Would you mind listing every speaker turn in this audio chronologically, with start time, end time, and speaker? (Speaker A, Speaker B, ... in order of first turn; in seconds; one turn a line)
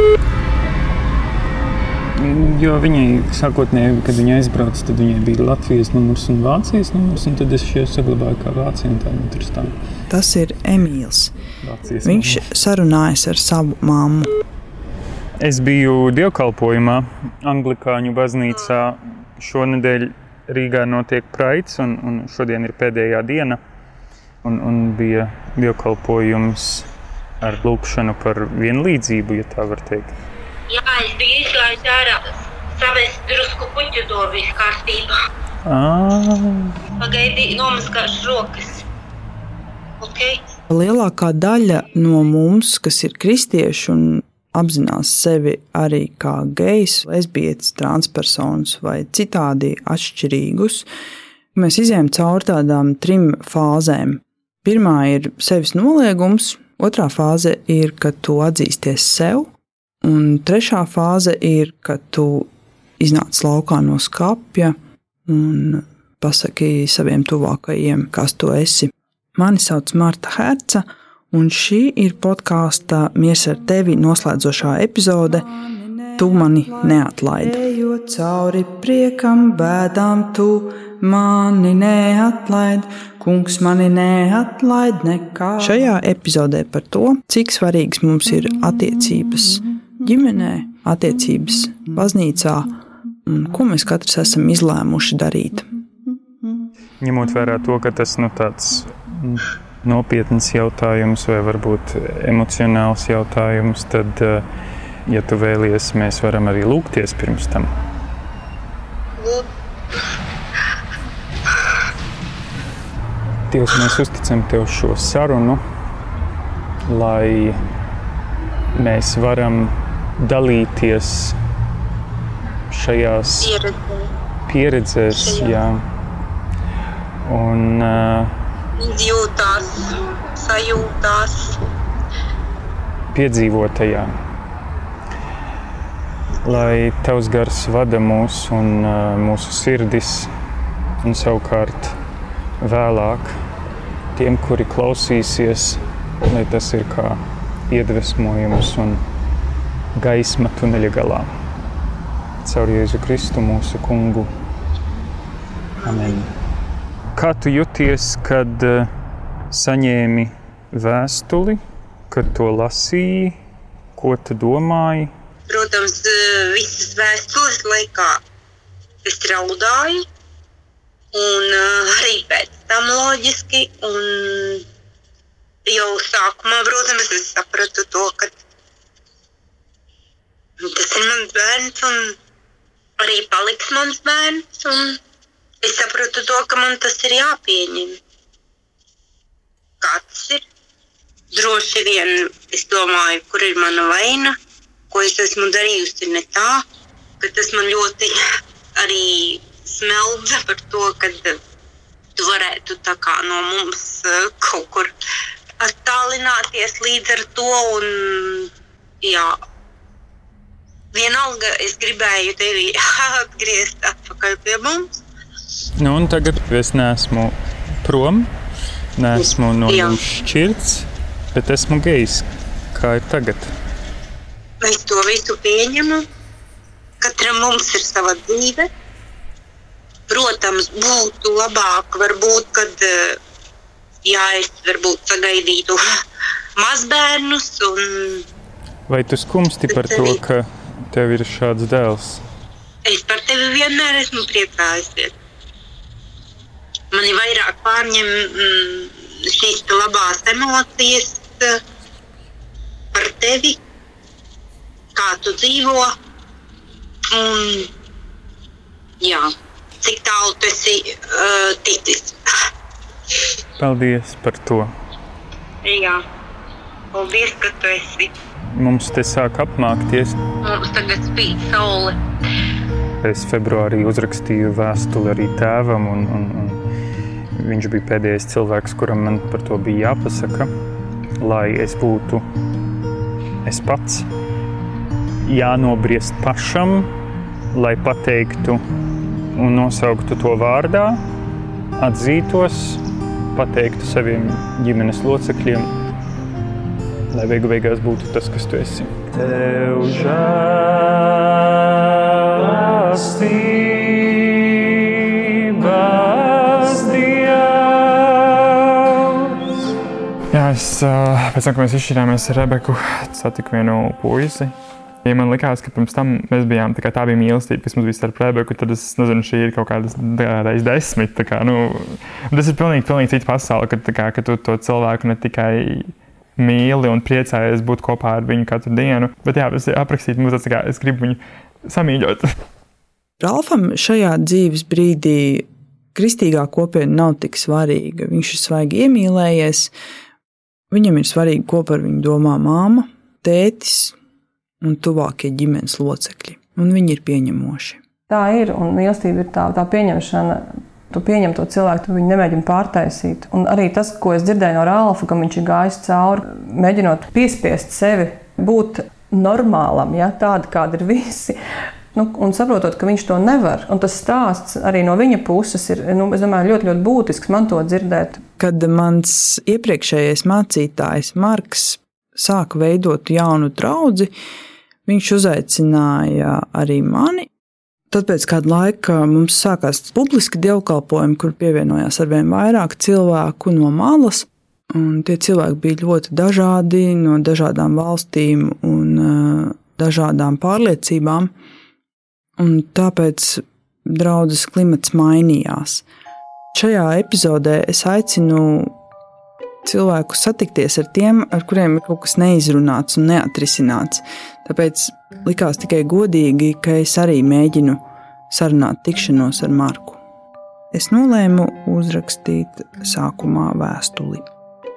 Speaker A: 2.2-9.7
Speaker B: 10.1-11.3
Speaker A: 11.6-12.4
Speaker B: 12.0-14.3
Speaker A: 15.4-23.6
Speaker A: 24.4-26.9
Speaker A: 27.4-30.1
Speaker C: 30.7-32.2
Speaker C: 32.8-35.1
Speaker A: 35.6-36.8
Speaker C: 37.0-38.8
Speaker C: 40.0-40.4
Speaker B: 40.7-50.9
Speaker B: 51.5-59.5
Speaker B: 60.0-62.5
Speaker B: 63.0-64.7
Speaker B: 65.3-75.6
Speaker B: 76.2-95.7
Speaker A: 97.0-104.4
Speaker A: 105.1-107.7
Speaker C: 109.2-109.5
Speaker A: 113.5-115.6
Speaker A: 116.9-117.6
Speaker A: 118.8-121.4
Speaker A: 122.7-123.5
Speaker C: 123.4-124.1
Speaker A: 124.5-125.8
Speaker C: 125.1-125.6
Speaker A: 127.2-128.3
Speaker C: 128.8-131.6
Speaker A: 133.1-134.1
Speaker A: 136.4-140.3
Speaker A: 141.0-141.9
Speaker A: 142.6-143.3
Speaker A: 144.2-147.2
Speaker A: 147.7-149.0
Speaker A: 150.0-151.3
Speaker A: 152.4-154.3
Speaker A: 155.8-156.3
Speaker A: 157.2-158.9
Speaker A: 159.5-161.6
Speaker A: 162.1-163.3
Speaker A: 164.0-165.1
Speaker C: 165.5-168.2
Speaker C: 169.0-170.0
Speaker C: 171.1-174.6
Speaker C: 175.7-178.3
Speaker C: 180.6-182.1
Speaker C: 183.0-185.0
Speaker C: 185.6-188.0
Speaker C: 189.8-190.4
Speaker C: 191.3-194.3
Speaker C: 194.9-196.6
Speaker C: 197.2-198.1
Speaker C: 198.8-201.4
Speaker C: 202.2-204.9
Speaker C: 205.6-208.5
Speaker C: 209.0-209.3
Speaker C: 210.9-214.9
Speaker A: 215.8-218.3
Speaker A: 219.0-223.5
Speaker C: 219.1-220.0
Speaker C: 224.6-226.0
Speaker C: 227.0-228.7
Speaker C: 230.1-233.2
Speaker C: 234.0-235.8
Speaker C: 236.6-238.2
Speaker A: 238.9-242.2
Speaker C: 239.7-240.2
Speaker C: 242.8-245.1
Speaker C: 246.9-251.6
Speaker C: 252.9-253.6
Speaker C: 254.9-255.9
Speaker C: 257.1-257.7
Speaker C: 259.0-259.3
Speaker C: 259.8-262.2
Speaker A: 263.6-264.7
Speaker C: 265.6-266.0
Speaker C: 266.9-268.1
Speaker A: 268.5-270.2
Speaker C: 270.4-271.9
Speaker A: 273.0-276.6
Speaker A: 277.4-280.5
Speaker A: 281.2-282.2
Speaker A: 283.4-284.1
Speaker A: 285.2-286.9
Speaker A: 287.5-288.6
Speaker A: 289.4-291.0
Speaker A: 291.8-292.8
Speaker A: 293.3-295.7
Speaker A: 297.1-309.4
Speaker D: 310.3-332.3
Speaker B: 333.2-339.7
Speaker B: 340.7-343.9
Speaker B: 344.6-347.8
Speaker E: 348.1-361.3
Speaker E: 361.9-368.2
Speaker B: 368.4-374.1
Speaker B: 374.9-377.3
Speaker B: 377.9-391.3
Speaker B: 392.4-395.8
Speaker B: 396.5-398.7
Speaker B: 399.6-410.0
Speaker B: 410.7-414.2